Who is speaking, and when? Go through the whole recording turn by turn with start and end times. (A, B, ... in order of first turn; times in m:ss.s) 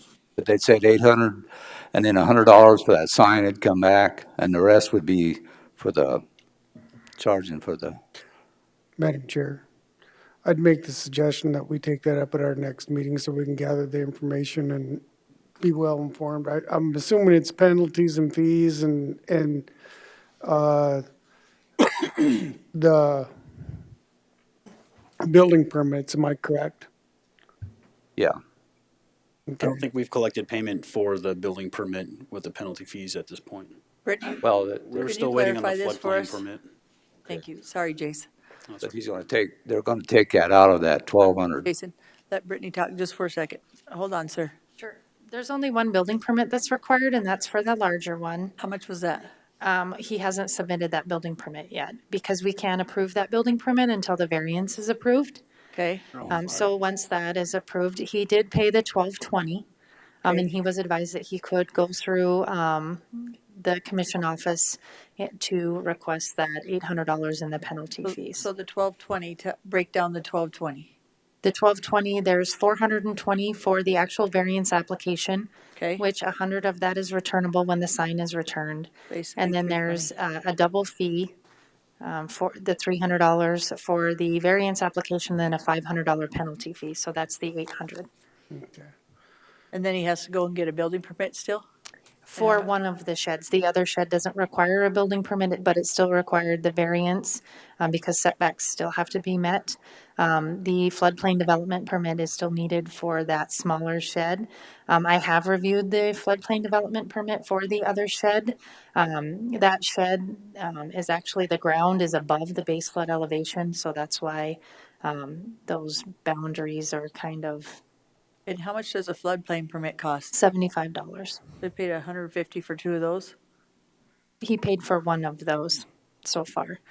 0:00.4-0:06.2 A
0:07.2-0:08.0 A
0:09.0-0:09.6 B
0:10.4-0:15.0 B
0:15.6-0:19.7 B
0:20.4-0:21.0 B
0:22.7-0:23.3 B
0:25.2-0:26.9 B
0:29.5-0:29.8 B
0:29.6-0:33.8 C
0:34.0-0:34.4 D
0:34.4-0:35.0 A
0:34.8-0:36.6 C
0:35.0-0:36.4 D
0:37.3-0:38.3 D
0:38.8-0:41.7 A
0:41.7-0:44.5 D
0:44.8-0:48.5 E
0:48.6-0:49.3 D
0:49.6-0:55.4 E
0:55.7-0:56.1 D
0:56.2-0:59.7 E
1:00.2-1:08.5 E
1:08.0-1:10.9 D
1:11.4-1:21.3 E
1:15.8-1:16.0 D
1:19.1-1:20.1 D
1:22.0-1:28.1 E
1:28.5-1:28.9 B
1:29.7-1:31.6 D
1:32.3-1:32.7 D
1:32.3-1:57.8 E
1:58.5-2:00.3 D
2:00.3-2:01.4 E
2:01.6-2:03.4 D
2:04.4-2:06.8 E